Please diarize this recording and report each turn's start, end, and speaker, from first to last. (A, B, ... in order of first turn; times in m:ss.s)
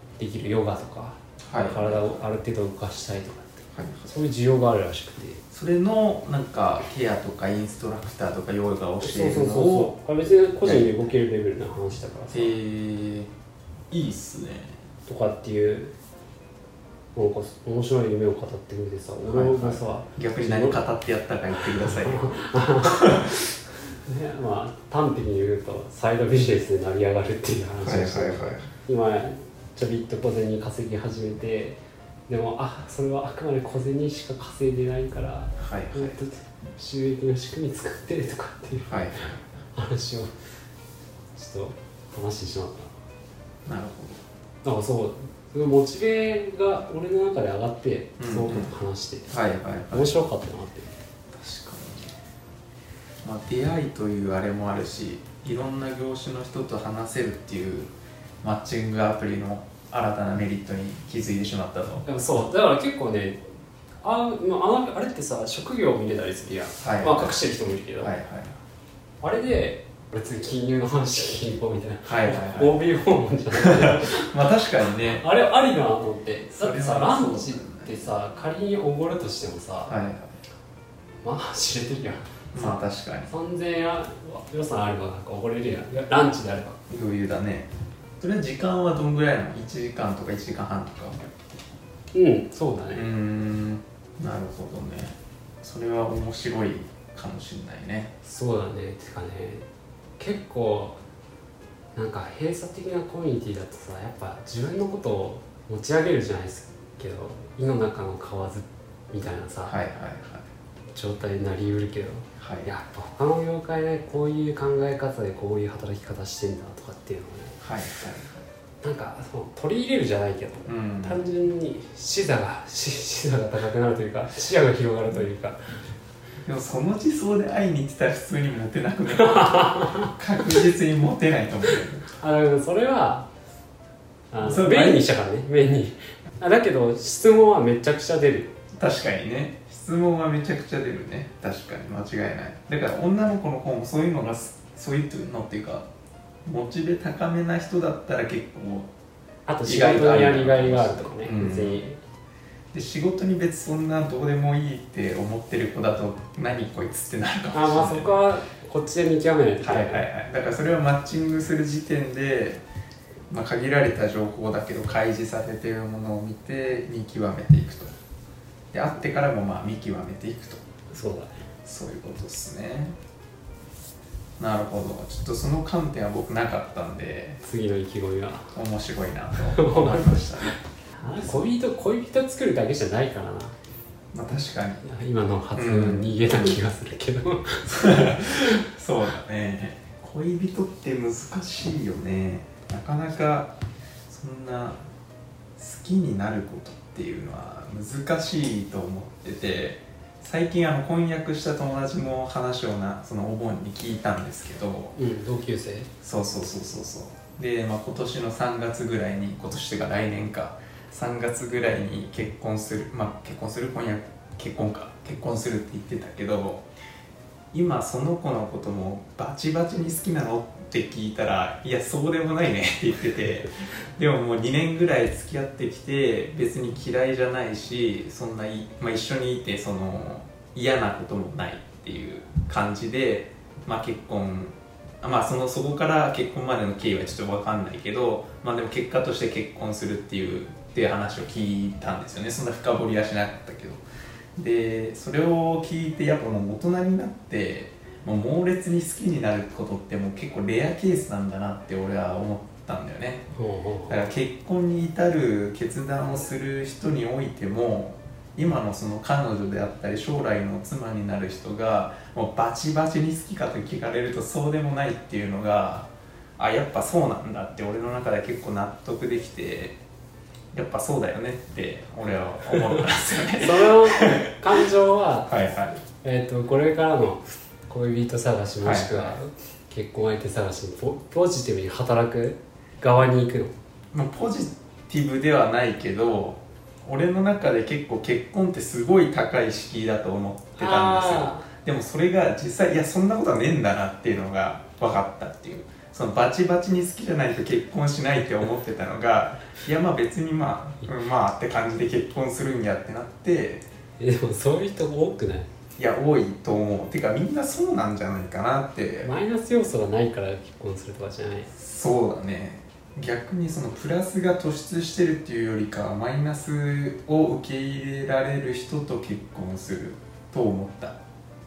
0:00.2-0:05.4 A
0:01.5-0:02.2 B
0:03.7-0:04.1 B
0:05.5-0:09.9 B
0:09.0-0:12.5 A
0:10.6-0:11.1 B
0:12.3-0:13.3 B
0:13.9-0:14.8 B
0:15.0-0:15.9 A
0:17.1-0:20.8 A
0:19.2-0:23.5 B
0:21.6-0:23.3 A
0:24.0-0:40.3 A
0:27.8-0:28.7 B
0:35.6-0:36.2 B
0:38.8-0:39.4 B
0:41.4-0:42.9 A
0:43.6-0:44.2 B
0:44.6-0:49.3 A
0:48.2-0:48.7 B
0:49.3-0:50.1 B
0:49.9-0:50.9 A
0:51.3-0:52.2 B
0:53.2-0:57.9 B
0:58.4-1:02.0 B
1:02.0-1:03.4 A
1:04.0-1:08.1 A
1:06.8-1:07.3 B
1:08.0-1:08.6 B
1:09.2-1:14.3 A
1:12.0-1:12.8 B
1:13.5-1:15.2 B
1:15.1-1:19.9 A
1:16.5-1:18.0 B
1:19.8-1:20.3 B
1:21.2-1:26.8 A
1:22.5-1:23.3 B
1:26.9-1:31.2 B
1:32.1-1:33.0 A
1:32.9-1:38.1 B
1:38.2-1:39.6 A
1:40.2-1:41.0 A
1:41.9-1:49.7 A
1:49.6-1:50.5 B
1:50.9-1:57.6 A
1:52.4-1:52.7 B
1:57.6-1:58.4 B
1:58.8-2:05.6 A
2:00.6-2:01.2 B
2:06.4-2:12.0 B
2:09.2-2:10.1 A
2:12.1-2:13.3 A
2:14.3-2:18.5 A
2:14.4-2:15.0 B
2:18.8-2:25.9 B
2:26.4-2:28.9 B
2:29.5-2:32.0 A
2:29.6-2:31.8 B
2:32.7-2:38.2 B
2:37.5-2:40.0 A
2:39.6-2:42.6 B
2:43.3-2:47.9 B
2:48.7-2:50.6 B
2:50.9-2:51.3 A
2:51.6-2:53.0 B
2:54.4-2:57.4 B
2:57.4-2:58.5 A
2:58.5-3:00.6 B
2:59.4-3:03.5 A
3:04.1-3:04.8 B
3:04.8-3:08.2 A
3:05.5-3:06.6 B
3:07.7-3:13.5 B
3:14.1-3:14.8 B
3:15.6-3:25.0 B
3:25.0-3:25.9 A
3:26.0-3:36.6 B
3:37.5-4:03.8 B
4:04.4-4:13.2 B
4:13.3-4:14.1 A
4:13.9-4:29.8 B
4:30.5-4:34.4 B
4:32.5-4:35.3 A
4:35.3-4:35.8 B
4:35.9-4:43.5 A
4:38.6-4:39.2 B
4:43.9-5:03.6 B
4:50.6-4:51.4 A
5:04.0-5:05.5 A
5:05.8-5:09.1 B
5:09.0-5:11.5 A
5:11.5-5:21.0 B